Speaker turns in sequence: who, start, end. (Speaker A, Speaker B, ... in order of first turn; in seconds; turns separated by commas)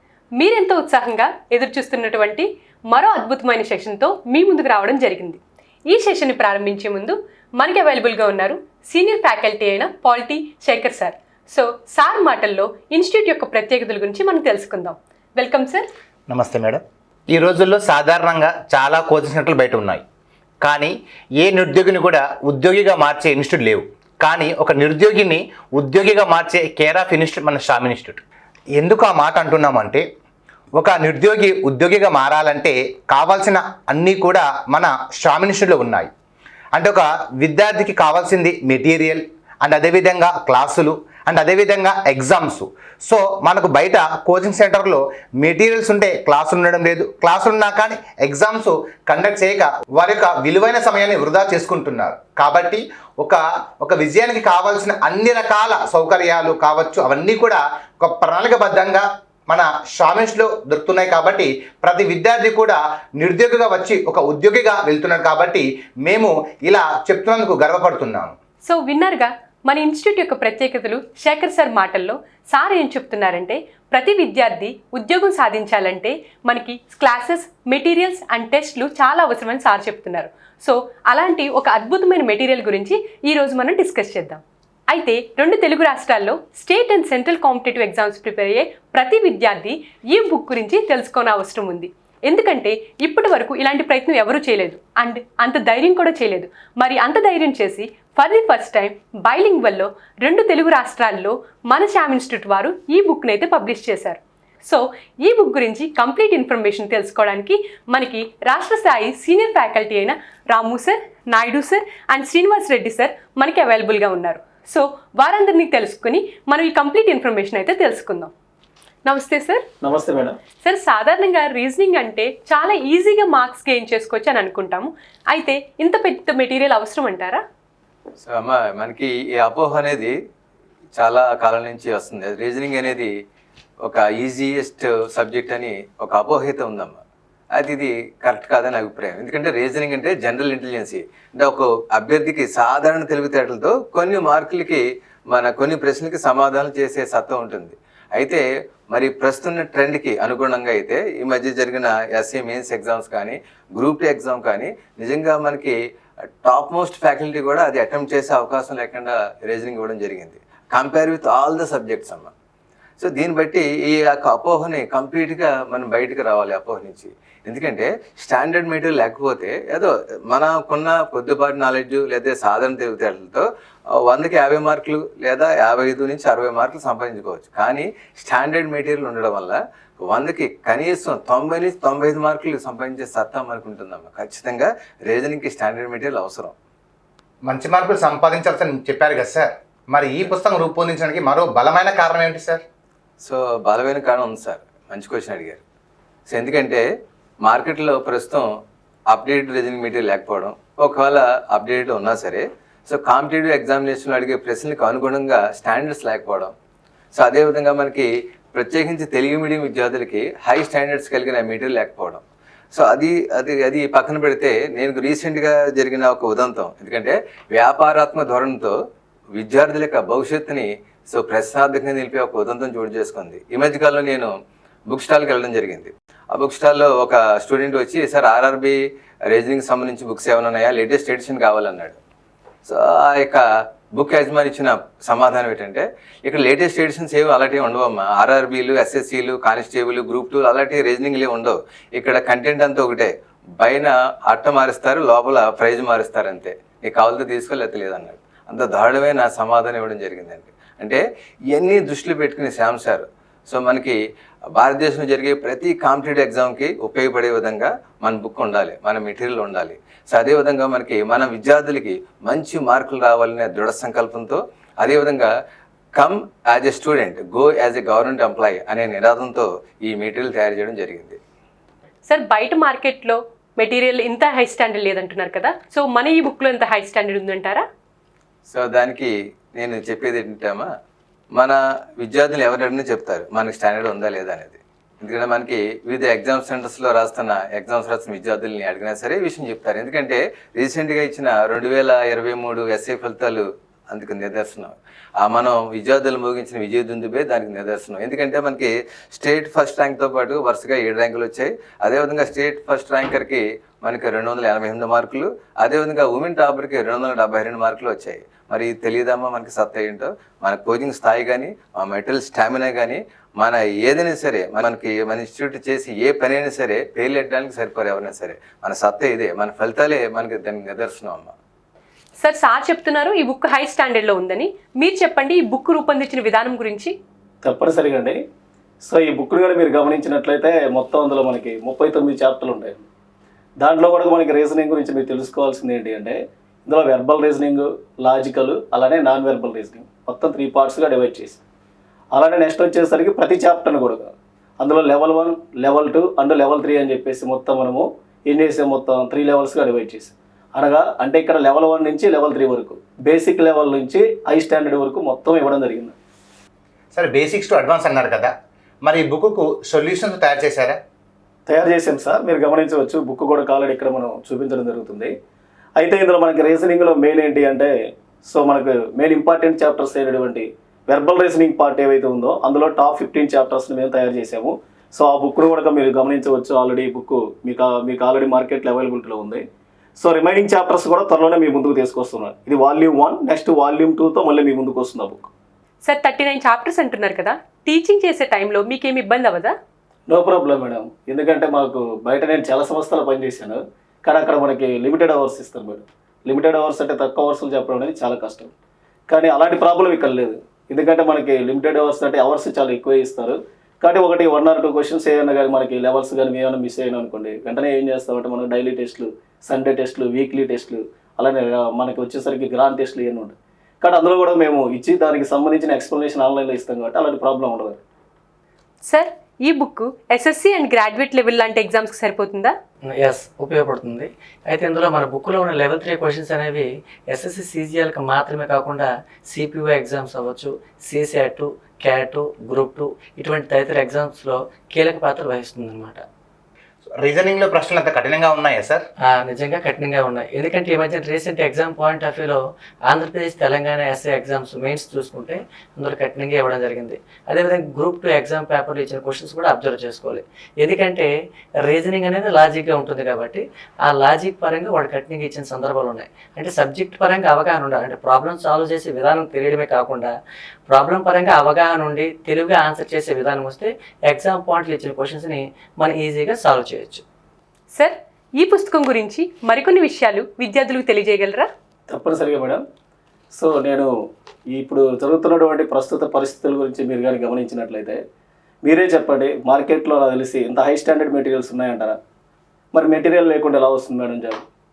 Speaker A: 0.4-15.9, Speaker B: 16.3-16.8, Speaker B: 17.3-20.0, Speaker B: 20.6-28.2, Speaker B: 28.8-30.0, Speaker B: 30.8-36.1, Speaker B: 36.8-68.3, Speaker A: 68.6-118.3, Speaker A: 119.0-119.6, Speaker C: 119.8-120.4, Speaker A: 120.6-127.4, Speaker D: 128.2-130.1, Speaker D: 131.0-133.1, Speaker D: 133.8-137.0, Speaker D: 137.5-155.8, Speaker D: 156.4-162.3, Speaker D: 163.0-173.5, Speaker D: 174.0-186.6, Speaker B: 187.5-192.6, Speaker D: 193.2-195.6, Speaker D: 196.3-196.8, Speaker D: 197.4-198.5, Speaker D: 199.1-206.5, Speaker D: 207.1-218.7, Speaker D: 219.3-224.3, Speaker D: 224.9-228.8, Speaker D: 229.3-232.0, Speaker D: 232.7-233.4, Speaker D: 233.9-251.0, Speaker D: 251.5-254.0, Speaker D: 254.5-265.3, Speaker D: 266.0-271.2, Speaker A: 272.1-277.6, Speaker D: 278.5-280.7, Speaker D: 281.4-321.3, Speaker A: 322.2-326.9, Speaker C: 327.4-328.2, Speaker C: 328.8-332.9, Speaker C: 333.6-341.4, Speaker C: 342.1-355.9, Speaker B: 356.9-358.3, Speaker B: 358.8-360.8, Speaker C: 361.5-365.1, Speaker C: 365.8-367.7, Speaker C: 368.2-379.4, Speaker C: 380.0-385.3, Speaker A: 385.8-389.5, Speaker C: 390.1-398.5, Speaker C: 399.1-417.8, Speaker A: 418.9-422.5, Speaker E: 422.9-436.0, Speaker B: 437.0-438.9, Speaker E: 439.0-460.1, Speaker E: 460.7-467.0, Speaker A: 467.7-471.5, Speaker C: 471.9-472.6, Speaker C: 473.3-473.9, Speaker C: 474.5-478.0, Speaker C: 478.6-482.0, Speaker C: 482.7-484.4